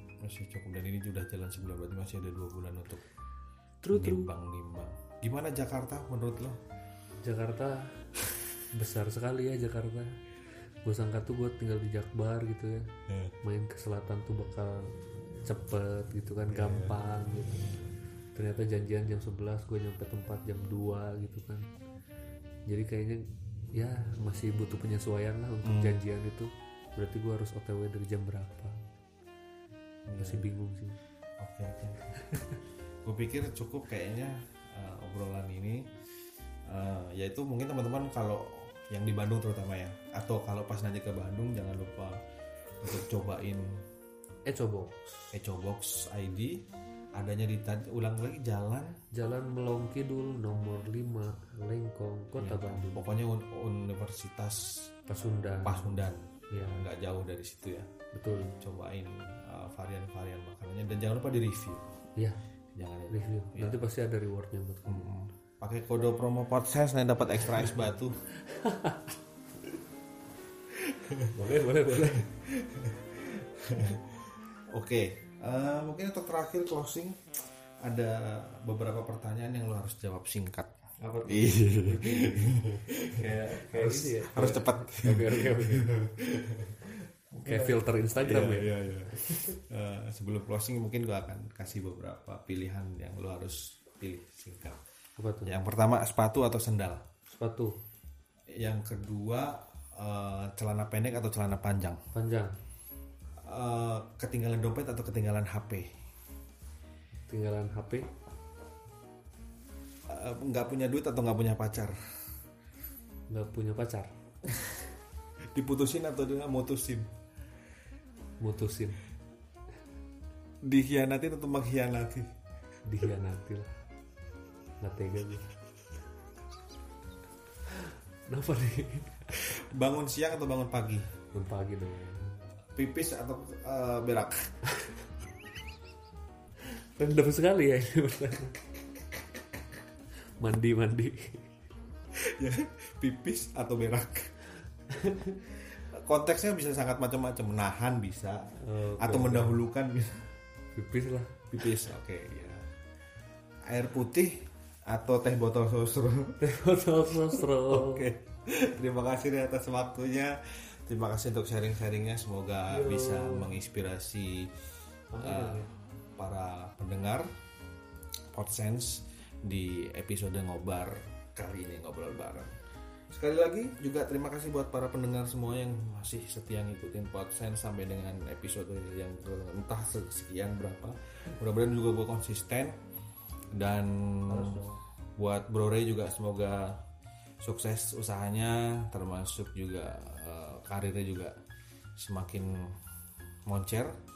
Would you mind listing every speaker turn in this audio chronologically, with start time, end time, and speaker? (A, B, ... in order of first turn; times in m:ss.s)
0:00.2-0:03.0 A
0:03.8-0:04.3 B
0:03.9-0:06.6 A
0:07.2-0:07.9 B
0:08.7-0:10.2 B
0:10.8-0:12.9 B
0:13.1-0:13.3 A
0:13.4-0:17.8 B
0:16.5-0:17.0 A
0:18.3-0:21.7 B
0:22.7-0:28.8 B
0:25.6-0:26.0 A
0:30.1-0:30.4 A
0:30.2-0:31.0 B
0:31.4-0:32.2 A
0:32.2-0:32.6 B
0:33.0-0:35.9 A
0:36.7-0:42.2 A
0:42.8-0:43.8 A
0:44.4-0:45.2 B
0:45.3-0:46.6 A
0:47.1-0:49.0 A
0:49.1-0:53.1 B
0:52.4-0:54.8 A
0:55.1-0:56.9 B
0:55.6-0:57.9 A
0:58.1-0:58.6 B
0:58.6-1:01.9 A
1:02.7-1:03.8 A
1:03.1-1:05.1 B
1:04.8-1:08.2 A
1:08.3-1:09.1 B
1:10.8-1:17.2 A
1:11.3-1:12.3 B
1:17.8-1:20.7 A
1:21.0-1:26.0 B
1:21.2-1:34.8 A
1:27.4-1:29.6 B
1:35.2-1:35.6 B
1:35.4-1:37.0 A
1:37.3-1:37.8 B
1:38.5-1:42.0 A
1:42.1-1:42.6 B
1:43.4-1:45.9 A
1:47.3-1:48.1 B
1:50.1-1:52.0 A
1:53.3-1:54.1 B
1:55.5-1:57.1 A
1:58.4-1:59.0 B
2:00.6-2:02.3 A
2:02.8-2:03.7 B
2:04.8-2:05.5 B
2:07.7-2:09.6 B
2:09.3-2:11.1 A
2:11.3-2:12.4 B
2:12.7-2:14.5 A
2:16.7-2:18.6 B
2:20.4-2:21.5 B
2:22.1-2:24.3 A
2:24.9-2:25.4 B
2:25.7-2:30.3 A
2:28.6-2:29.6 B
2:30.7-2:31.7 B
2:31.5-2:32.7 A
2:33.6-2:36.4 A
2:36.4-2:38.1 B
2:37.3-2:44.5 A
2:42.7-2:43.5 B
2:45.1-2:45.7 B
2:45.2-2:47.3 A
2:48.3-2:52.5 A
2:53.1-3:02.8 A
3:03.5-3:04.6 A
3:04.2-3:04.8 B
3:05.2-3:06.8 A
3:07.4-3:11.4 A
3:12.0-3:12.8 A
3:13.5-3:14.0 A